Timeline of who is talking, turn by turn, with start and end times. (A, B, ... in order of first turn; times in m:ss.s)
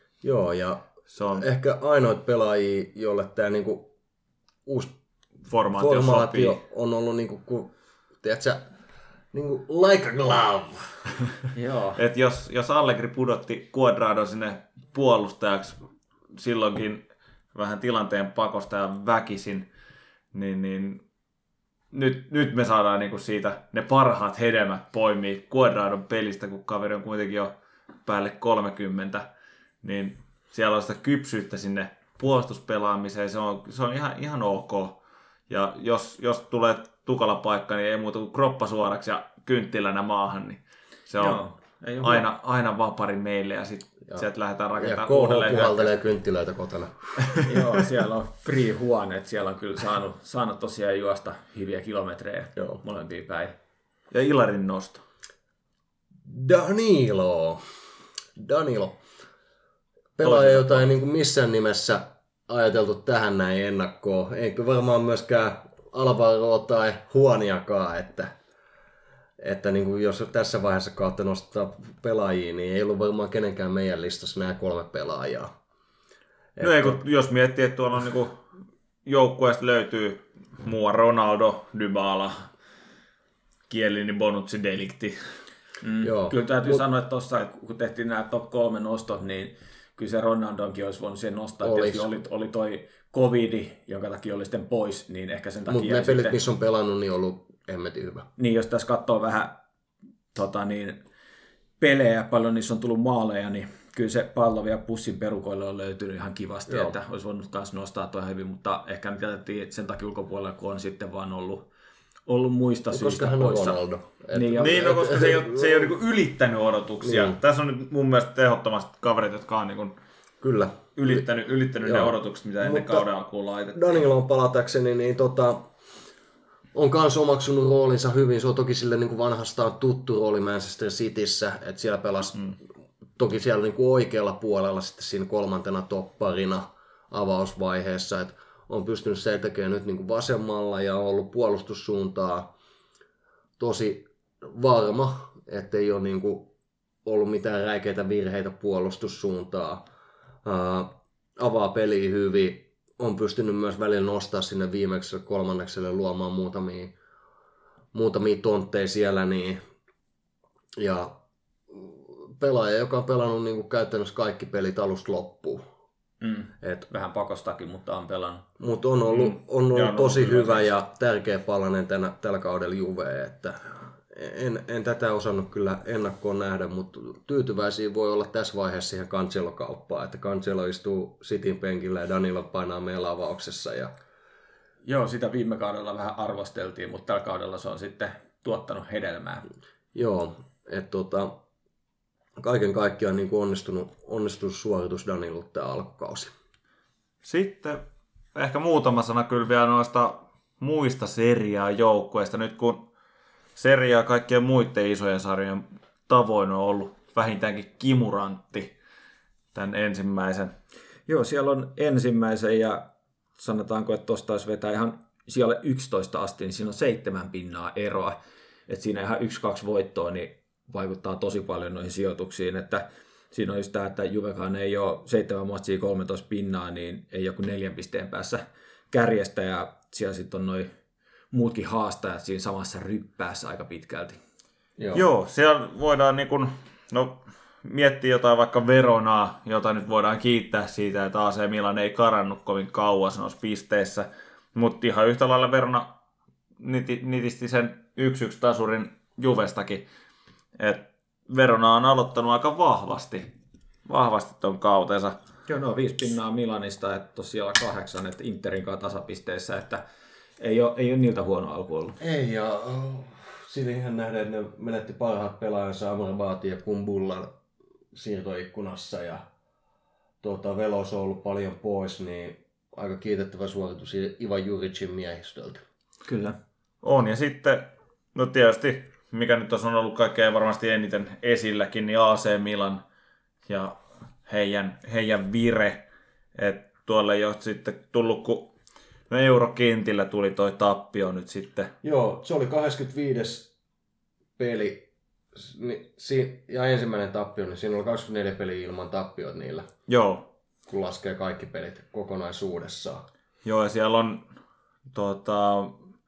0:00.2-0:00.8 A
0:01.1-0:01.4 B
0:01.3-0:03.9 A
0:04.6-0:04.9 A
0:05.5-0:06.6 B
0:05.7-0:08.7 A
0:09.3-0:11.0 A
0:11.5-0:12.0 C
0:12.0-0:15.8 B
0:16.3-0:19.7 B
0:20.3-0:21.0 B
0:21.9-0:27.5 B
0:28.0-0:29.2 B
0:29.8-0:35.0 B
0:35.5-0:41.4 B
0:41.2-0:42.3 C
0:42.0-0:45.9 B
0:44.1-0:47.4 A
0:47.4-0:53.5 C
0:54.1-0:55.0 B
0:56.2-0:57.7 A
0:58.4-0:59.0 A
1:00.2-1:08.3 A
1:00.2-1:00.8 B
1:09.4-1:15.5 A
1:16.6-1:17.0 A
1:16.6-1:18.4 B
1:19.0-1:22.5 B
1:23.7-1:25.2 B
1:25.8-1:36.4 C
1:26.0-1:26.8 A
1:31.6-1:32.1 A
1:35.7-1:38.3 A
1:38.4-1:39.6 C
1:40.3-1:41.0 C
1:41.8-1:51.6 C
1:46.7-1:46.9 A
1:52.3-1:53.8 C
1:52.9-1:55.9 A
1:54.3-1:54.9 C
1:54.6-1:59.9 B
1:57.0-1:57.4 A
2:00.4-2:01.2 A
2:01.0-2:04.0 B
2:01.8-2:03.0 A
2:03.7-2:05.7 A
2:06.7-2:12.5 A
2:13.2-2:22.5 A
2:23.6-2:26.5 A
2:27.0-2:29.8 A
2:30.4-2:36.9 A
2:37.9-2:39.6 A
2:40.8-2:41.1 A
2:41.7-2:45.6 A
2:46.2-2:48.4 C
2:46.6-2:46.8 A
2:48.6-3:03.9 A
2:49.1-2:50.7 B
3:04.8-3:09.4 C
3:09.9-3:11.4 A
3:12.4-3:16.3 A
3:17.2-3:17.8 B
3:18.3-3:22.8 B
3:23.6-3:28.7 B
3:29.5-3:30.5 B
3:31.1-3:32.8 C
3:33.4-3:38.2 C
3:38.7-3:50.7 C
3:51.3-3:54.2 C
3:54.8-3:55.1 A
3:54.9-4:05.9 B
4:06.6-4:09.8 B
4:10.6-4:13.3 B
4:13.8-4:15.2 B
4:15.5-4:19.8 C
4:20.4-4:22.0 C
4:22.0-4:27.3 A
4:27.9-4:29.2 A
4:30.2-4:35.6 A
4:36.0-4:36.4 C
4:36.8-4:42.8 B
4:43.5-4:48.5 B
4:49.1-4:51.7 B
4:51.8-4:53.5 A
4:54.4-4:59.7 A
4:59.9-5:00.3 B
5:00.7-5:03.0 A
5:03.4-5:04.2 B
5:04.9-5:05.8 B